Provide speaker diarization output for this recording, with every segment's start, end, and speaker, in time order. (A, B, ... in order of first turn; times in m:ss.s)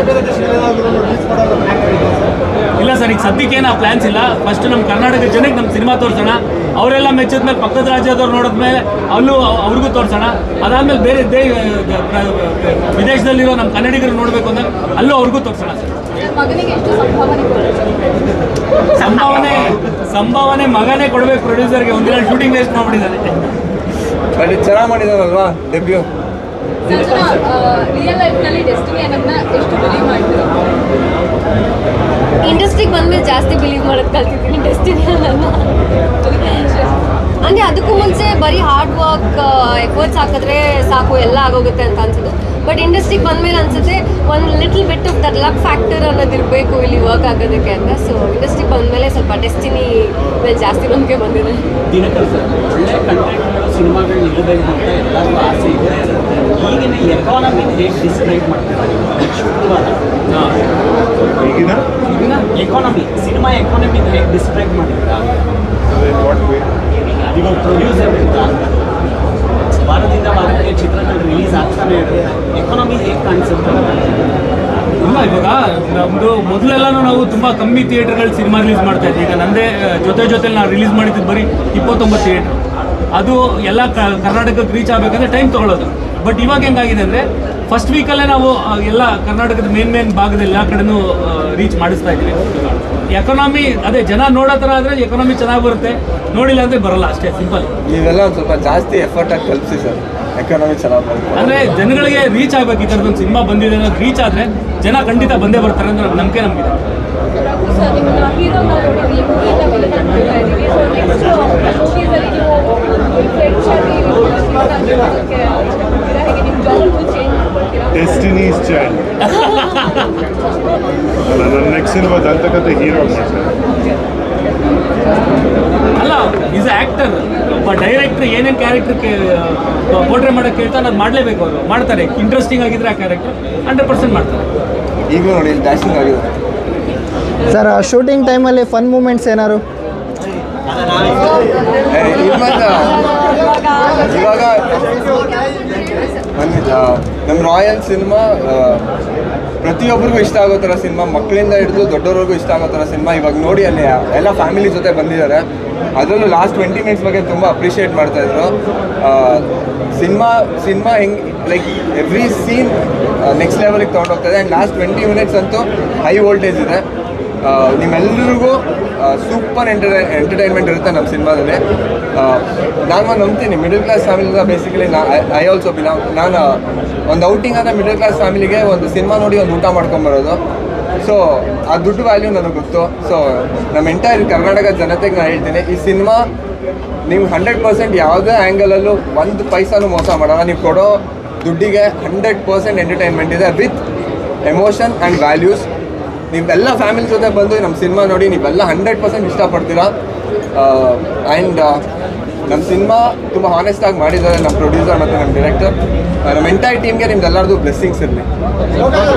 0:02.8-0:15.9 A
0:16.2-0:18.1 B
0:19.0-0:23.3 A
0:24.4-0:26.1 C
0:26.9-0:30.5 B
0:32.4-0:35.7 D
0:36.2-0:36.9 B
0:37.4-0:51.7 D
0:51.9-1:00.0 E
1:00.3-1:00.6 A
1:01.4-1:01.8 F
1:02.1-1:02.4 A
1:02.6-1:05.3 E
1:05.9-1:06.7 F
1:07.3-1:08.8 E
1:09.8-1:14.0 E
1:15.0-1:22.5 A
1:23.1-1:32.4 A
1:33.1-1:37.7 A
1:37.9-1:41.6 C
1:41.4-1:46.8 A
1:47.3-1:58.1 B
1:57.9-1:59.0 F
1:59.3-2:00.1 A
1:59.3-1:59.8 B
2:01.2-2:03.6 F
2:06.0-2:14.4 A
2:15.1-2:16.3 C
2:17.5-2:19.6 G
2:21.9-2:23.1 C
2:23.0-2:24.1 D
2:24.0-2:24.9 C
2:24.4-2:25.0 B
2:25.0-2:26.1 D
2:26.3-2:28.9 C
2:29.6-2:46.8 C
2:47.4-2:51.6 C
2:52.2-3:00.4 C
3:01.0-3:06.3 C
3:07.1-3:13.8 C
3:14.4-3:15.7 C
3:16.3-3:19.9 C
3:20.6-3:21.8 C
3:22.5-3:28.3 C